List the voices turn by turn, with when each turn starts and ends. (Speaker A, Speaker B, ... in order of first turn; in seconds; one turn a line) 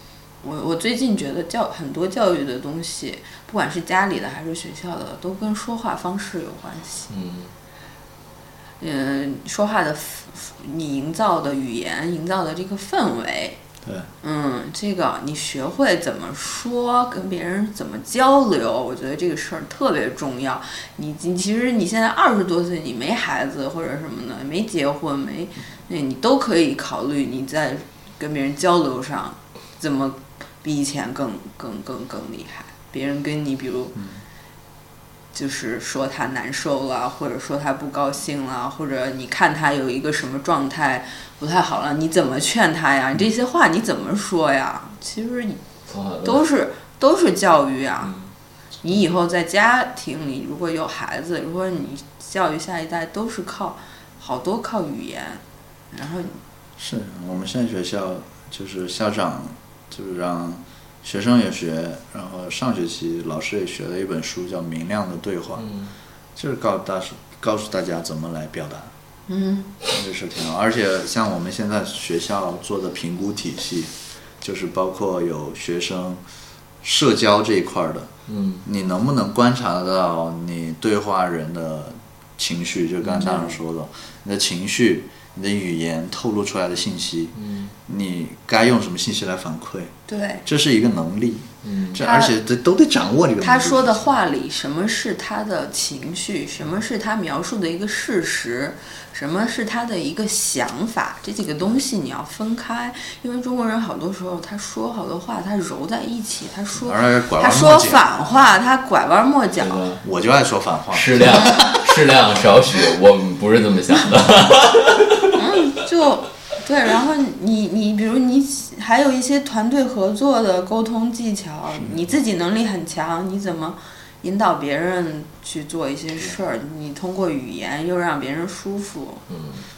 Speaker A: 0.4-7.1
Speaker B: 7.1-7.5
Speaker A: 8.8-13.6
Speaker C: 13.8-14.1
Speaker A: 14.2-34.0
Speaker A: 35.3-45.6
Speaker B: 45.9-46.5
Speaker A: 46.2-48.1
Speaker A: 48.8-56.4
Speaker C: 56.8-65.7
Speaker B: 65.6-65.9
Speaker C: 66.3-68.9
Speaker A: 69.3-69.7
Speaker C: 69.9-76.2
Speaker C: 76.8-78.1
Speaker B: 78.3-78.6
Speaker C: 78.6-87.3
Speaker A: 83.2-83.6
Speaker B: 87.3-87.7
Speaker C: 87.8-89.9
Speaker A: 90.1-90.5
Speaker C: 90.5-94.1
Speaker B: 91.6-92.0
Speaker A: 92.0-92.3
Speaker A: 93.4-109.8
Speaker C: 106.8-108.1
Speaker B: 109.6-110.0
Speaker C: 110.0-111.8
Speaker B: 110.9-115.3
Speaker A: 115.3-129.2
Speaker C: 121.7-122.1
Speaker B: 129.3-129.6